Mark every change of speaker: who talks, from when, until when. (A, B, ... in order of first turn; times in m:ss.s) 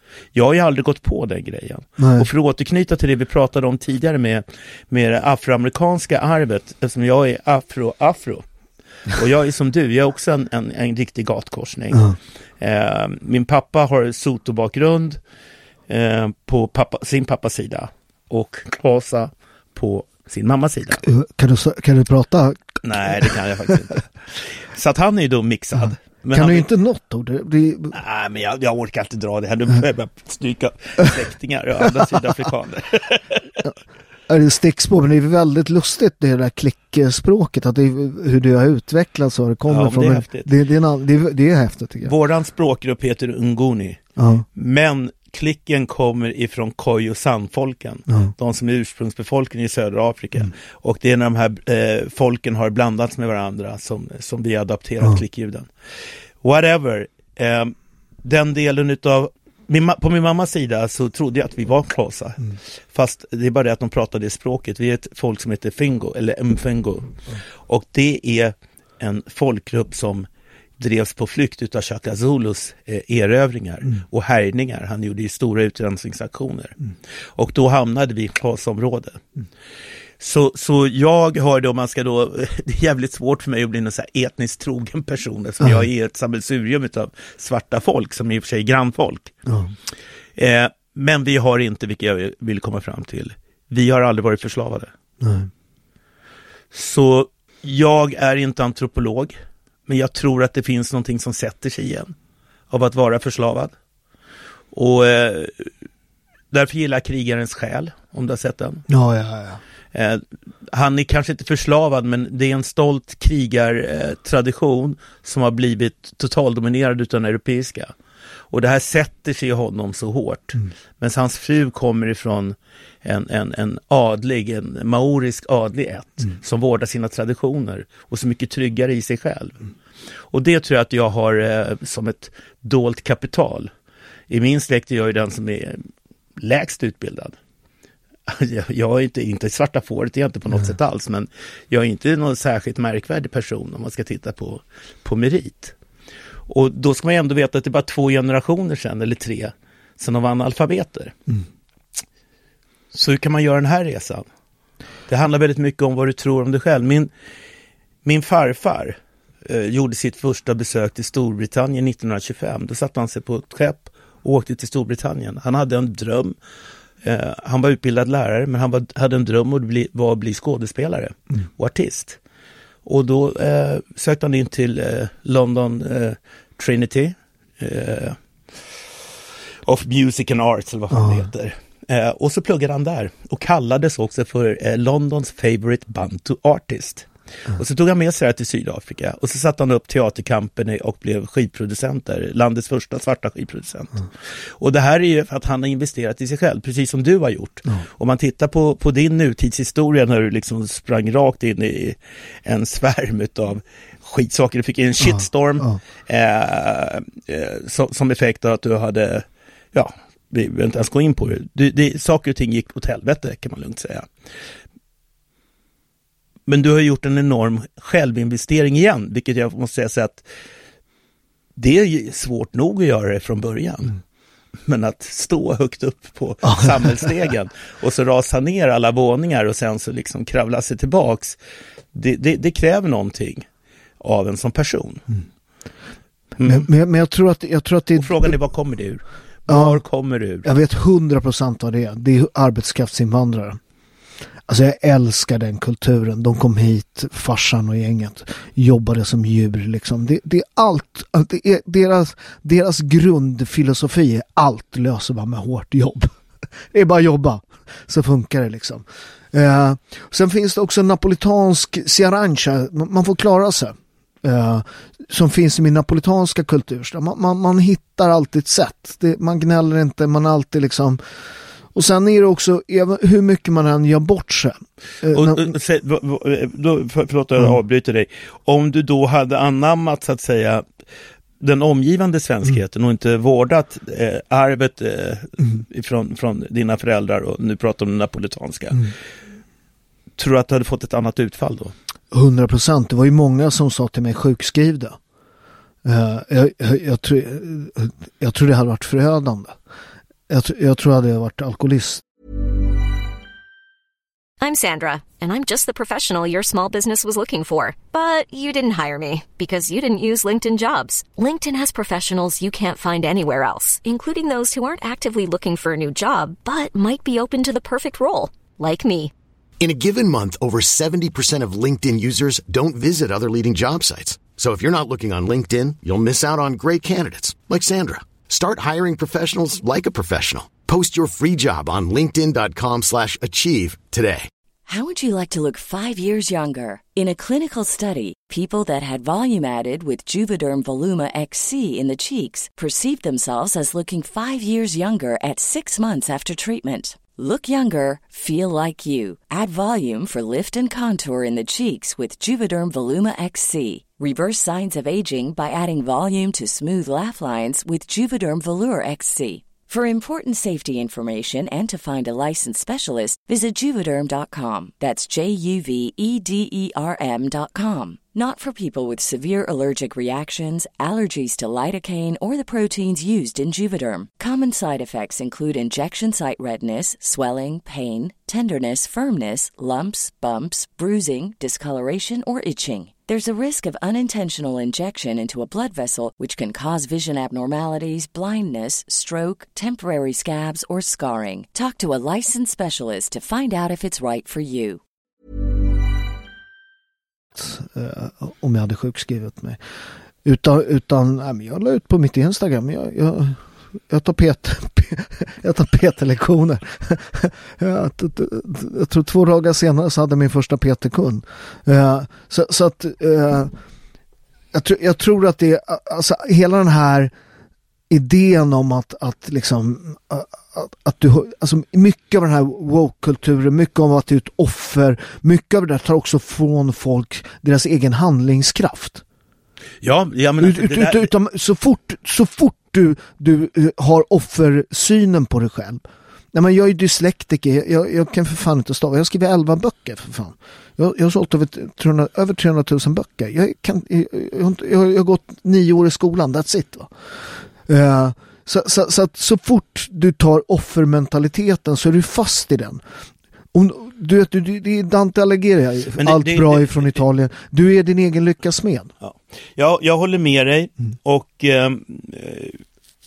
0:00.3-0:08.4 A
0:02.0-0:02.3 B
0:09.1-0:12.1 A
0:11.9-0:12.2 B
0:12.6-0:15.2 A
0:15.9-0:21.0 A
0:21.0-0:23.8 B
0:22.8-0:26.7 A
0:26.3-0:27.9 B
0:27.9-0:33.6 A
0:34.3-0:42.1 B
0:39.7-0:40.5 A
0:42.0-0:44.0 A
0:44.2-0:44.4 B
0:44.5-0:55.7 A
0:56.4-1:10.3 A
1:10.8-1:16.8 A
1:17.4-1:19.2 A
1:20.2-1:29.3 A
1:29.5-1:29.7 B
1:30.4-1:34.9 A
1:35.2-1:35.5 B
1:36.7-1:42.1 A
1:42.7-1:43.7 A
1:44.7-1:45.7 A
1:46.5-1:48.8 A
1:48.9-1:49.6 B
1:49.9-1:57.9 A
1:58.5-2:09.6 A
2:10.3-2:13.7 A
2:14.3-2:15.8 A
2:16.4-2:17.4 A
2:18.3-2:25.7 A
2:26.5-2:31.2 A
2:32.9-2:34.2 A
2:35.1-2:37.1 A
2:38.0-2:46.4 A
2:47.0-2:52.2 A
2:52.8-2:58.2 A
2:59.6-3:14.0 A
3:00.9-3:01.2 B
3:14.6-3:34.1 A
3:25.1-3:25.8 B
3:36.5-3:40.2 A
3:41.6-3:44.0 A
3:44.6-3:51.4 A
3:46.5-3:46.8 B
3:51.9-3:53.4 A
3:54.0-3:55.0 A
3:56.4-3:56.7 A
3:56.4-3:58.4 B
3:57.9-4:00.5 A
3:59.5-3:59.8 B
4:00.4-4:03.6 B
4:04.5-4:16.1 B
4:16.7-4:31.0 B
4:31.7-4:35.5 B
4:35.1-4:40.6 A
4:41.4-4:48.9 A
4:50.2-4:51.7 A
4:52.1-4:55.0 B
4:55.8-4:59.6 B
5:00.3-5:02.0 B
5:04.4-5:19.1 C
5:19.6-5:34.3 D
5:34.7-6:34.8 E
6:37.3-6:39.6 B
6:40.2-6:53.5 B
6:54.5-6:57.1 B
6:57.9-7:09.0 B
7:09.8-7:11.1 A
7:10.4-7:26.9 B
7:27.7-7:32.8 B
7:33.5-7:38.9 B
7:36.0-7:37.0 A
7:39.0-7:42.6 A